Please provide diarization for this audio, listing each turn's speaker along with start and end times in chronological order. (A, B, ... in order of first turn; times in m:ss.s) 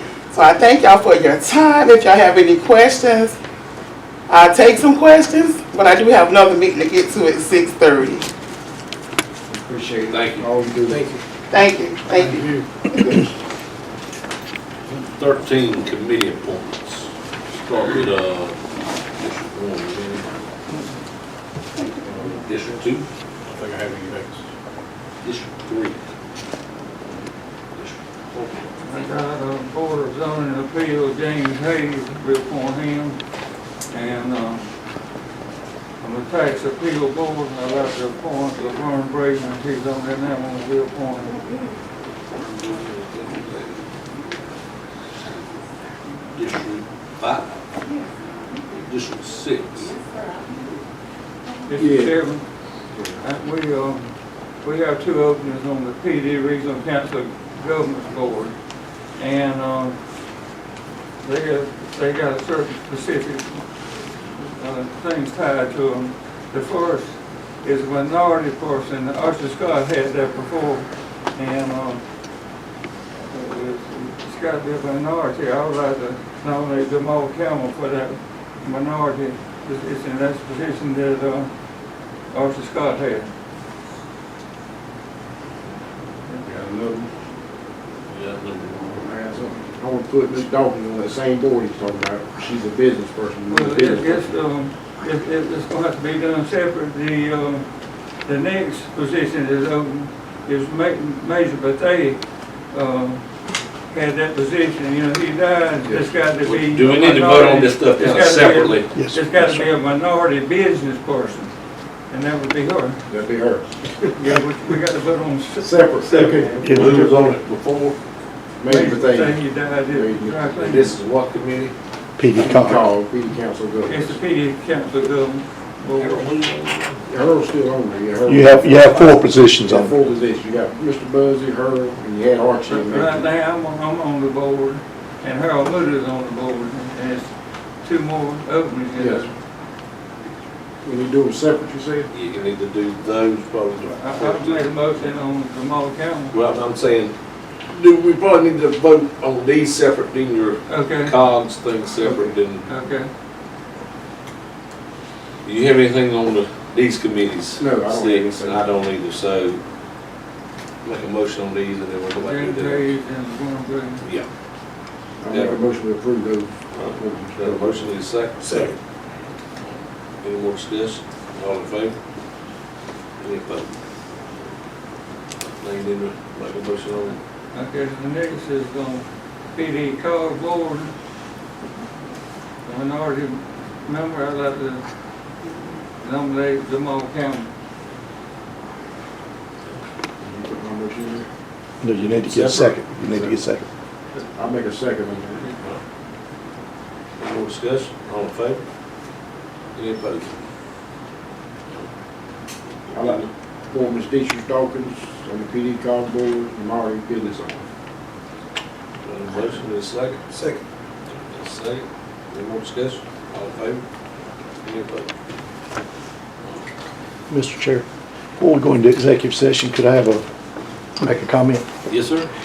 0:00.3-0:03.4 A
0:04.3-0:08.3 A
0:10.1-0:10.4 B
0:10.3-0:11.1 C
0:11.5-0:13.2 A
0:14.9-0:18.5 B
0:19.2-0:20.2 B
0:22.2-0:23.1 B
0:23.5-0:24.4 C
0:25.2-0:26.0 B
0:27.7-0:28.7 B
0:28.8-0:33.2 D
0:33.9-0:34.7 D
0:36.0-0:41.4 D
0:42.3-0:43.9 B
0:46.3-0:47.6 B
0:48.8-0:50.0 B
0:51.6-0:52.4 D
0:51.8-0:52.1 C
0:52.9-0:53.2 C
0:53.2-0:58.6 D
0:59.1-1:00.0 D
1:01.2-1:03.7 D
1:04.3-1:12.0 D
1:13.3-1:21.5 D
1:22.3-1:23.3 D
1:26.4-1:27.1 C
1:28.1-1:29.0 B
1:29.0-1:34.3 C
1:33.5-1:37.7 D
1:38.2-1:51.5 D
1:46.4-1:48.9 B
1:48.9-1:49.6 E
1:52.1-1:53.0 D
1:53.1-1:53.8 C
1:54.1-1:56.5 D
1:55.6-1:57.0 C
1:56.1-1:58.0 B
1:56.6-1:57.1 E
1:58.6-2:00.6 C
1:58.7-2:01.0 D
2:00.6-2:01.7 B
2:02.2-2:02.8 E
2:02.3-2:04.2 C
2:03.8-2:06.2 D
2:06.0-2:07.0 B
2:07.1-2:13.2 C
2:08.3-2:09.9 E
2:12.6-2:19.3 D
2:19.0-2:19.3 C
2:20.8-2:22.1 C
2:22.1-2:24.7 B
2:23.9-2:26.4 D
2:26.3-2:27.1 B
2:27.7-2:32.7 B
2:30.7-2:31.1 D
2:32.0-2:32.3 C
2:32.6-2:33.1 D
2:35.4-2:39.6 B
2:37.6-2:38.6 C
2:40.8-2:42.9 B
2:42.2-2:44.0 D
2:44.0-2:44.3 B
2:45.2-2:47.9 C
2:45.3-2:45.6 B
2:46.7-2:48.8 B
2:48.4-2:48.7 E
2:50.2-2:52.0 B
2:53.2-2:53.7 B
2:55.6-2:57.2 B
2:57.5-3:00.9 D
3:02.6-3:04.8 D
3:06.0-3:07.5 D
3:10.2-3:11.3 C
3:11.8-3:13.7 E
3:12.2-3:12.8 B
3:14.3-3:15.5 C
3:17.2-3:18.6 B
3:19.7-3:20.3 B
3:22.9-3:23.3 B
3:22.9-3:27.7 C
3:29.0-3:30.4 B
3:31.1-3:33.8 B
3:34.6-3:35.1 B
3:37.3-3:37.8 E
3:38.4-3:40.2 E
3:41.0-3:41.6 E
3:41.9-3:42.3 B